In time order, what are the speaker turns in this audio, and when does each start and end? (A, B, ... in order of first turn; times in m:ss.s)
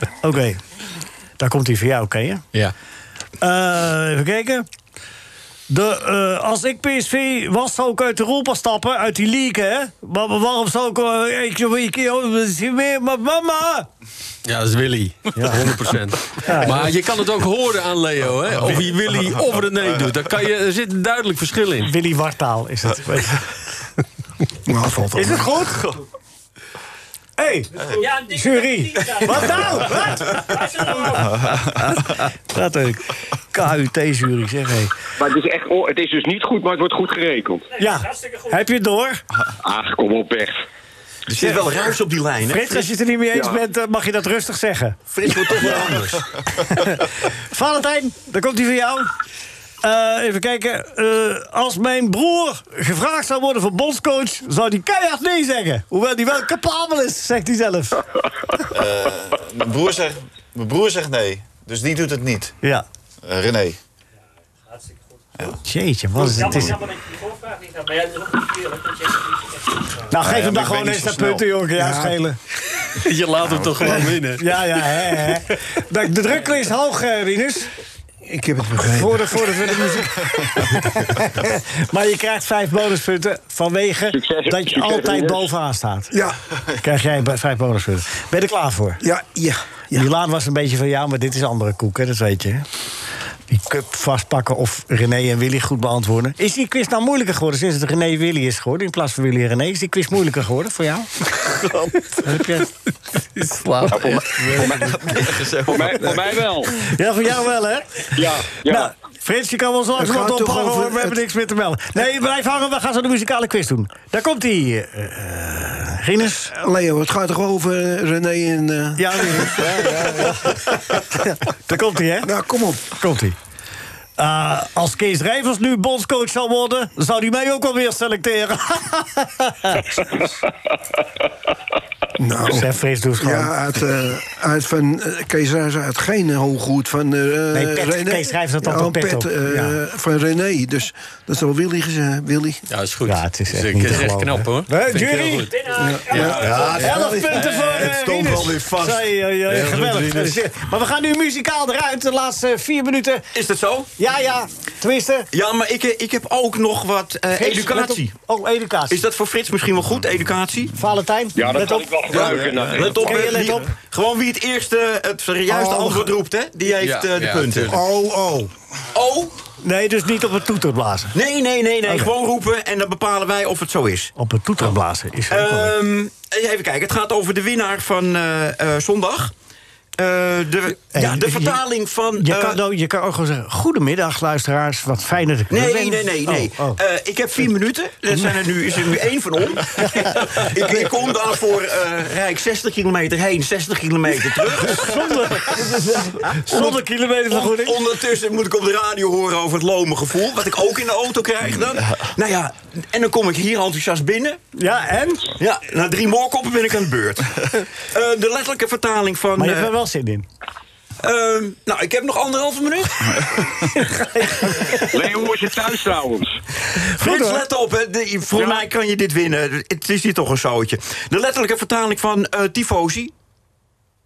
0:00.2-0:00.6 A
0:01.4-0:02.4 A
0:03.4-0:04.6 A
0:05.7-0:13.9 A
0:14.4-0:21.9 B
0:15.4-0:15.7 A
0:16.4-0:16.9 A
0:21.8-0:23.5 A
0:24.6-0:25.5 C
0:25.1-0:25.9 A
0:27.4-0:34.9 A
0:27.8-0:31.3 D
0:31.3-0:32.1 E
0:35.2-0:37.7 F
0:37.7-0:38.5 D
0:37.8-0:39.2 A
0:39.6-0:40.6 F
0:41.3-0:42.8 G
0:41.4-0:41.6 A
0:42.4-0:45.0 A
0:43.3-0:43.6 F
0:45.1-0:46.2 G
0:46.5-0:49.1 A
0:49.8-0:58.0 A
0:58.7-1:02.6 E
1:03.2-1:03.8 E
1:04.7-1:05.5 D
1:05.6-1:06.8 A
1:06.2-1:09.9 D
1:06.3-1:06.8 E
1:10.1-1:12.4 A
1:10.2-1:11.4 E
1:11.8-1:12.2 C
1:12.8-1:14.6 B
1:13.4-1:14.1 E
1:14.3-1:17.7 A
1:18.2-1:19.4 C
1:18.8-1:26.1 A
1:24.1-1:25.5 F
1:26.1-1:26.4 C
1:26.8-1:29.0 A
1:29.0-1:30.0 C
1:29.9-1:32.6 A
1:33.5-1:42.7 A
1:43.4-1:44.9 B
1:43.9-1:45.0 F
1:44.6-1:45.2 A
1:44.9-1:46.1 E
1:45.6-1:46.8 F
1:46.6-1:56.6 A
1:48.1-1:48.9 F
1:50.0-1:51.1 C
1:56.6-2:00.5 C
1:59.0-2:02.3 A
2:02.2-2:02.9 C
2:02.9-2:03.4 A
2:04.2-2:10.2 A
2:12.2-2:12.7 C
2:12.4-2:13.5 A
2:13.2-2:22.6 C
2:17.5-2:19.8 A
2:22.7-2:27.4 B
2:23.0-2:25.6 A
2:25.5-2:26.8 D
2:25.8-2:29.0 C
2:26.2-2:33.3 A
2:29.5-2:30.4 B
2:33.3-2:33.9 G
2:34.0-2:35.3 A
2:35.3-2:38.1 G
2:37.3-2:39.0 A
2:38.9-2:40.7 G
2:40.7-2:42.3 A
2:41.3-2:43.3 F
2:42.1-2:47.7 G
2:42.1-2:42.8 B
2:42.4-2:42.8 E
2:42.8-2:43.7 A
2:45.5-2:46.1 A
2:46.8-2:47.8 B
2:47.7-2:48.5 C
2:48.9-2:49.4 G
2:49.6-2:51.2 A
2:51.1-2:54.1 G
2:54.2-2:55.7 A
2:55.3-2:59.3 G
3:00.0-3:02.6 G
3:00.9-3:01.6 A
3:02.2-3:06.8 A
3:05.5-3:16.8 G
3:09.9-3:10.8 A
3:14.6-3:17.8 A
3:17.3-3:24.4 G
3:24.5-3:25.4 A
3:25.4-3:29.7 G
3:29.4-3:30.2 A
3:31.0-3:33.3 G
3:33.7-3:35.1 A
3:34.7-3:36.4 F
3:36.8-3:37.4 A
3:37.0-3:43.1 G
3:38.3-3:38.6 F